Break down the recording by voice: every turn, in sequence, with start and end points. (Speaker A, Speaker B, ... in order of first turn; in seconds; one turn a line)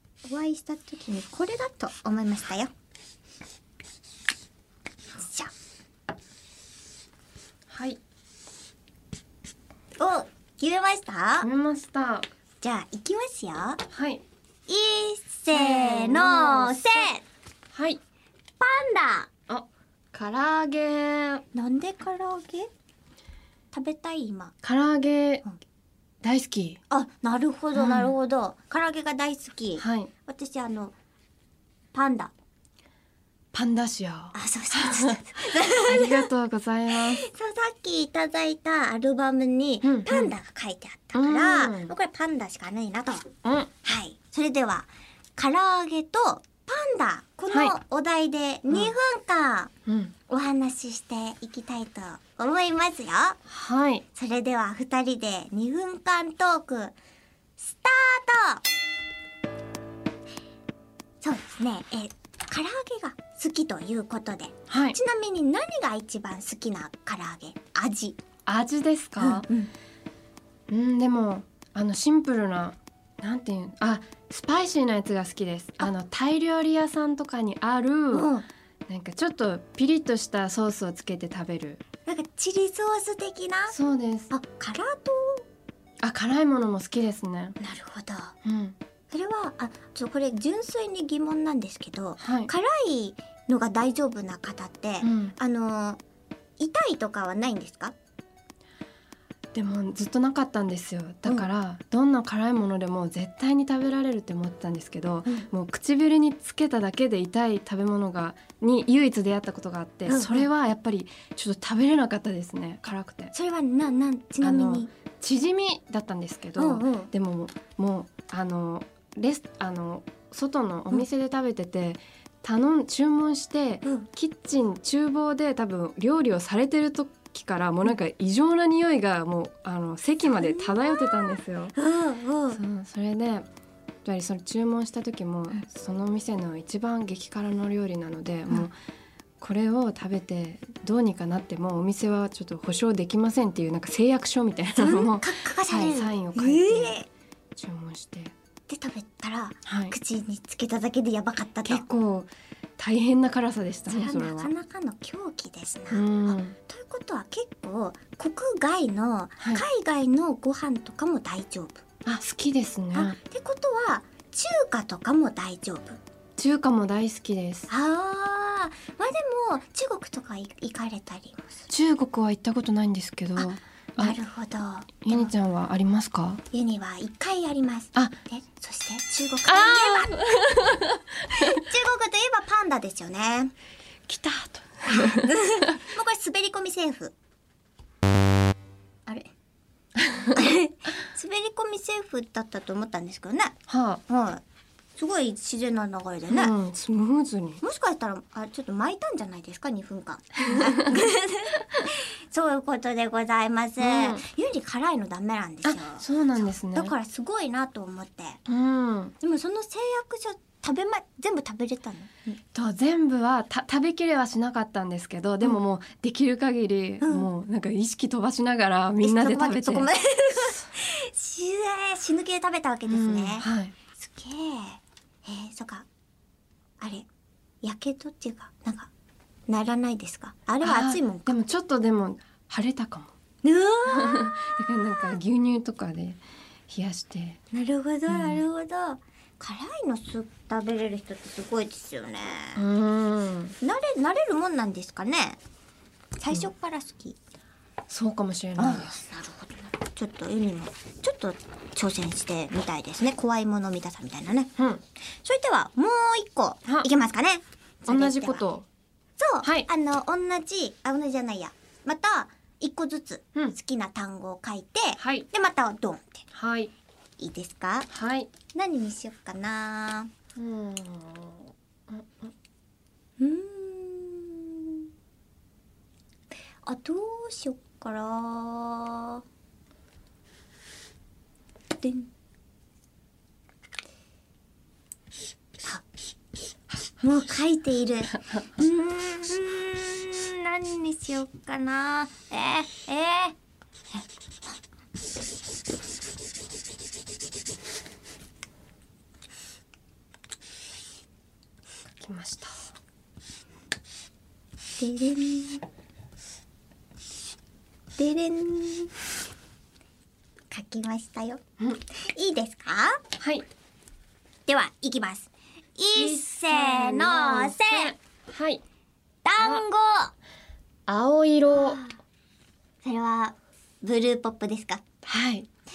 Speaker A: 0.2-2.7
Speaker A: 5.2-5.5
Speaker B: 7.7-8.0
Speaker A: 10.0-11.5
Speaker B: 11.4-12.3
Speaker A: 12.6-13.8
Speaker B: 13.9-14.2
Speaker A: 14.7-17.2
Speaker B: 15.5-17.1
Speaker B: 17.7-18.0
Speaker A: 18.6-19.3
Speaker B: 19.5-21.4
Speaker A: 21.5-22.7
Speaker A: 23.7-24.5
Speaker B: 24.6-25.4
Speaker B: 26.2-26.8
Speaker A: 26.9-30.9
Speaker B: 27.7-28.1
Speaker B: 29.8-30.1
Speaker A: 31.9-32.3
Speaker B: 33.5-37.2
Speaker A: 34.3-36.3
Speaker A: 36.9-43.3
Speaker B: 39.8-40.3
Speaker B: 41.1-41.9
Speaker B: 43.4-43.7
Speaker A: 43.8-49.7
Speaker B: 48.7-48.9
Speaker B: 49.9-50.1
Speaker A: 50.3-53.4
Speaker B: 53.5-54.0
Speaker A: 54.1-56.9
Speaker A: 57.6-58.6
Speaker A: 61.2-68.2
Speaker B: 64.7-65.0
Speaker B: 68.5-69.5
Speaker A: 69.2-69.7
Speaker B: 70.7-78.3
Speaker A: 78.1-78.5
Speaker B: 78.9-81.8
Speaker A: 82.0-83.8
Speaker B: 83.7-84.3
Speaker A: 84.3-85.5
Speaker B: 86.0-87.6
Speaker A: 87.6-88.3
Speaker B: 88.4-88.8
Speaker A: 89.1-96.0
Speaker B: 92.2-92.5
Speaker B: 95.0-95.3
Speaker A: 96.6-97.9
Speaker B: 99.5-113.3
Speaker A: 110.1-110.5
Speaker A: 113.3-114.9
Speaker B: 114.4-131.7
Speaker A: 116.6-117.1
Speaker A: 130.2-132.6
Speaker B: 132.5-133.5
Speaker B: 134.0-138.7
Speaker B: 139.4-147.0
Speaker A: 144.7-147.1
Speaker B: 147.6-148.3
Speaker A: 148.7-151.8
Speaker B: 149.7-149.9
Speaker B: 151.6-154.5
Speaker A: 153.9-161.8
Speaker B: 155.9-156.6
Speaker B: 162.0-163.2
Speaker A: 162.9-166.0
Speaker B: 166.4-167.7
Speaker A: 167.7-171.7
Speaker B: 171.7-174.2
Speaker A: 173.4-175.3
Speaker B: 175.0-176.4
Speaker A: 176.5-180.5
Speaker B: 179.4-181.6
Speaker A: 181.3-183.5
Speaker B: 184.1-185.3
Speaker A: 184.9-187.1
Speaker A: 189.1-189.3
Speaker B: 190.0-190.3
Speaker A: 190.2-194.4
Speaker B: 193.7-194.0
Speaker A: 195.0-196.5
Speaker B: 196.3-197.6
Speaker A: 197.6-208.4
Speaker B: 200.5-200.9
Speaker B: 203.8-204.2
Speaker B: 205.6-206.9
Speaker B: 208.5-209.1
Speaker A: 209.2-212.4
Speaker B: 212.5-219.8
Speaker A: 217.0-217.3
Speaker A: 219.0-225.9
Speaker B: 222.9-223.7
Speaker A: 226.8-227.1
Speaker A: 227.6-228.9
Speaker A: 229.5-231.4
Speaker B: 230.6-233.1
Speaker A: 233.4-234.3
Speaker B: 233.8-237.4
Speaker A: 237.5-242.6
Speaker B: 238.1-238.4
Speaker B: 242.6-243.6
Speaker A: 243.6-245.4
Speaker A: 246.2-247.2
Speaker B: 247.9-248.9
Speaker A: 248.6-254.5
Speaker A: 255.1-258.4
Speaker B: 257.9-258.6
Speaker A: 259.2-266.2
Speaker B: 265.0-265.3
Speaker B: 266.3-266.7
Speaker A: 267.2-267.9
Speaker B: 267.9-268.3
Speaker A: 268.5-270.1
Speaker B: 270.4-272.3
Speaker A: 273.2-274.9
Speaker A: 276.6-279.2
Speaker A: 281.8-282.1
Speaker A: 287.0-293.4
Speaker B: 302.0-302.7
Speaker A: 304.8-305.6
Speaker A: 308.0-308.9
Speaker A: 310.5-313.0
Speaker B: 313.2-313.4
Speaker A: 314.5-317.9
Speaker B: 315.9-318.6
Speaker A: 319.2-320.1
Speaker B: 319.4-319.6
Speaker B: 320.9-321.8
Speaker A: 321.5-322.0
Speaker A: 322.8-324.8
Speaker B: 325.1-325.5